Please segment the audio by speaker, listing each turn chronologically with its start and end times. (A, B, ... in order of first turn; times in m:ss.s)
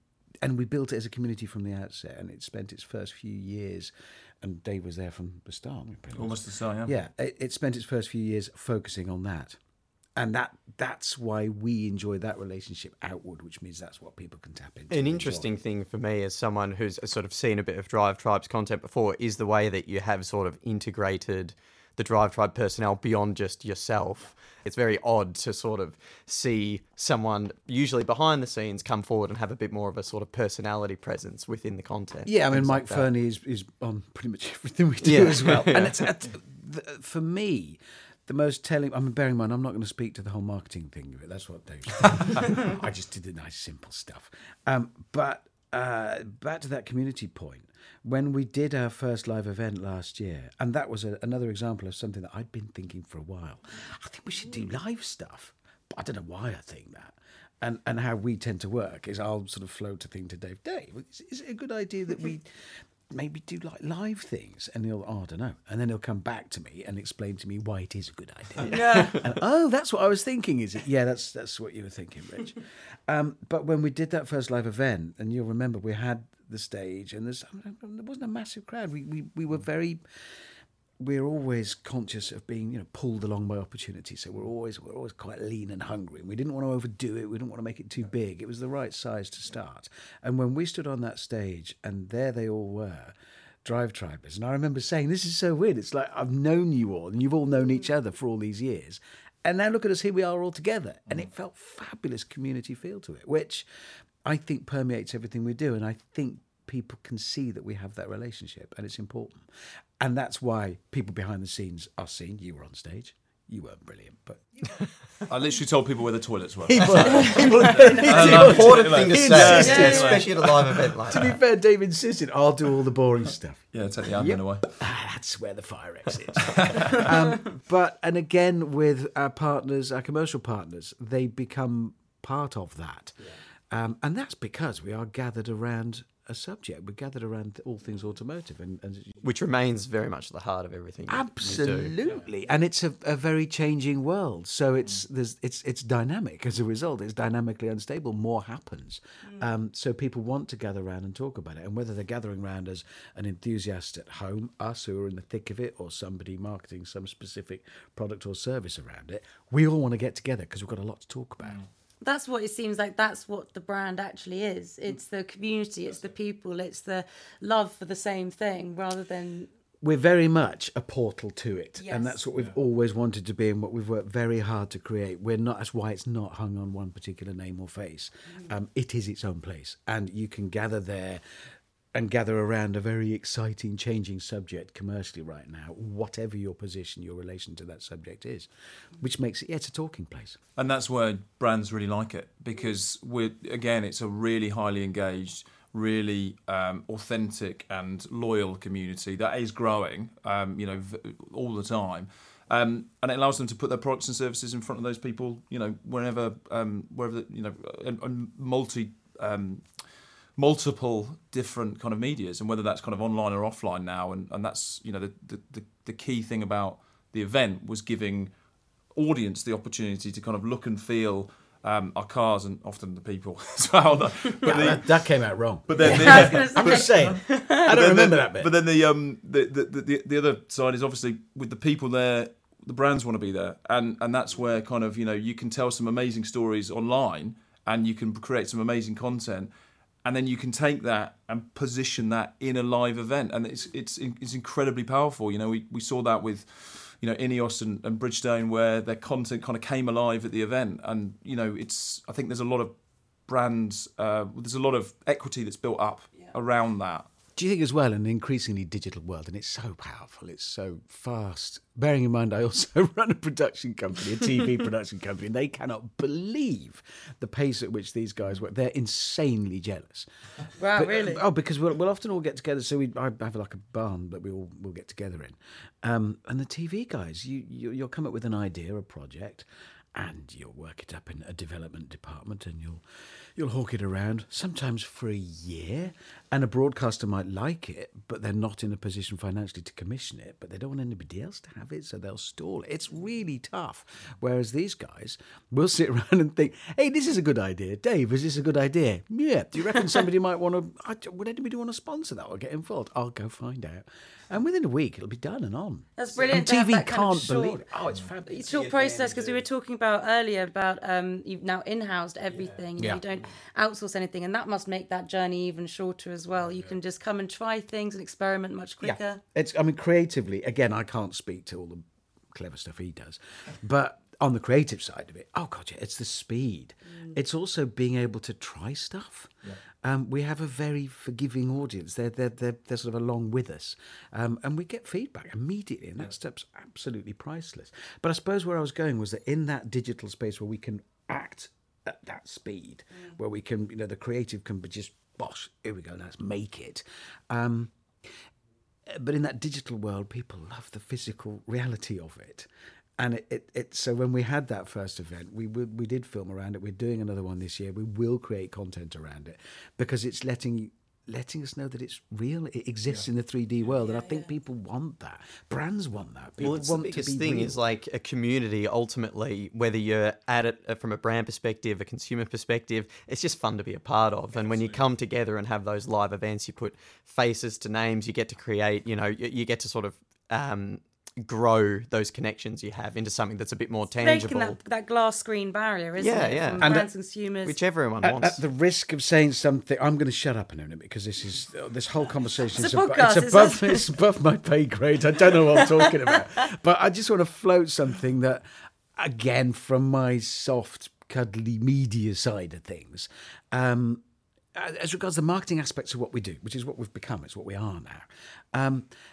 0:00.4-0:09.6 A
0:06.1-0:06.9 B
0:10.2-0:15.5 A
0:14.9-0:33.1 C
0:32.2-1:02.5 A
0:35.0-0:36.1 C
1:03.1-1:20.0 A
1:08.6-1:09.2 D
1:21.0-1:43.6 A
1:44.2-1:49.4 A
1:50.0-1:54.7 A
1:55.3-2:00.9 B
1:56.7-2:13.2 A
1:56.7-2:01.4 C
1:57.4-1:57.9 D
1:59.6-2:00.2 D
2:03.7-2:04.7 B
2:06.4-2:07.1 B
2:13.7-2:19.2 A
2:19.2-2:22.0 C
2:21.1-2:41.6 A
2:42.0-2:49.5 D
2:49.8-3:01.2 A
2:51.8-2:52.2 D
3:01.9-3:10.4 A
3:10.6-3:29.6 B
3:30.4-3:38.3 B
3:38.9-3:45.0 B
3:44.4-3:48.5 A
3:45.7-3:59.5 B
3:45.8-3:47.6 D
4:00.0-4:12.8 B
4:13.3-4:17.1 B
4:17.4-4:30.0 A
4:30.6-4:31.2 D
4:30.7-4:42.8 A
4:43.4-5:09.4 A
5:06.0-5:07.7 D
5:08.2-5:19.2 D
5:18.8-5:47.7 A
5:48.9-6:07.6 A
6:03.8-6:04.3 D
6:06.4-6:24.6 C
6:24.0-6:27.6 D
6:26.0-6:26.8 C
6:26.6-6:26.9 A
6:27.4-6:28.4 C
6:28.0-6:38.4 A
6:32.5-6:33.9 D
6:39.0-6:44.0 A
6:44.5-6:48.9 A